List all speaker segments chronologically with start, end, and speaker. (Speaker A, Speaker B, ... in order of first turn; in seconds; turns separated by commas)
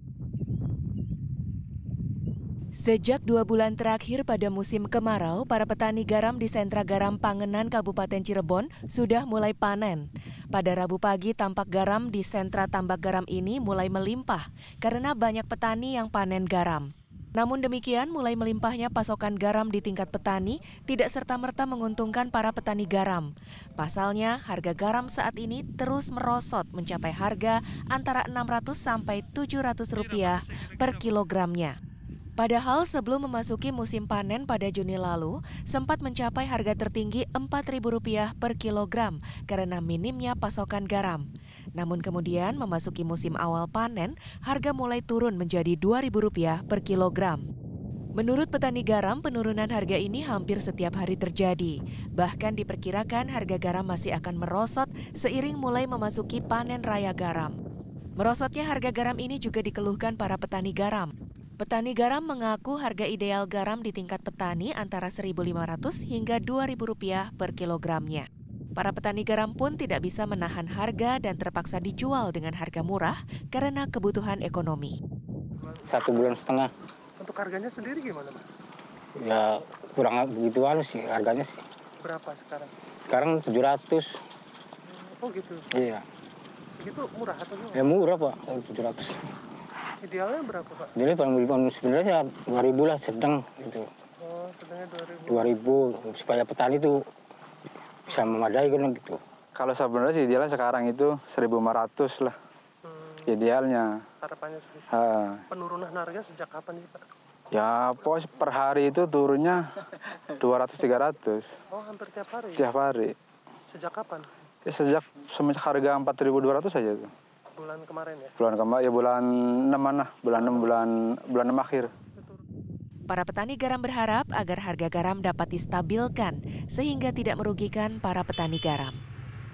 Speaker A: 2.8-31.8, Speaker A: 32.4-41.2, Speaker A: 41.8-47.4, Speaker A: 48.2-57.5, Speaker A: 58.2-75.0, Speaker B: 75.8-76.7, Speaker C: 77.2-78.5, Speaker B: 79.2-81.6, Speaker C: 82.0-82.9, Speaker B: 83.0-84.2, Speaker C: 84.9-85.7, Speaker B: 85.7-86.1, Speaker C: 86.7-87.8, Speaker B: 87.7-89.3, Speaker C: 90.0-91.0, Speaker B: 91.0-93.9, Speaker C: 94.2-95.5, Speaker B: 95.3-97.1, Speaker B: 98.1-99.2, Speaker D: 99.5-102.4, Speaker C: 102.9-103.4, Speaker D: 103.3-104.0, Speaker C: 104.2-104.9, Speaker D: 104.9-105.4, Speaker C: 105.5-107.0, Speaker D: 107.5-109.6, Speaker D: 110.4-111.6, Speaker C: 111.7-112.7, Speaker D: 112.6-113.2, Speaker C: 113.7-114.3, Speaker D: 114.7-117.1, Speaker C: 117.5-118.3, Speaker D: 118.4-121.9, Speaker C: 120.3-120.8, Speaker C: 122.2-122.4, Speaker A: 123.1-129.0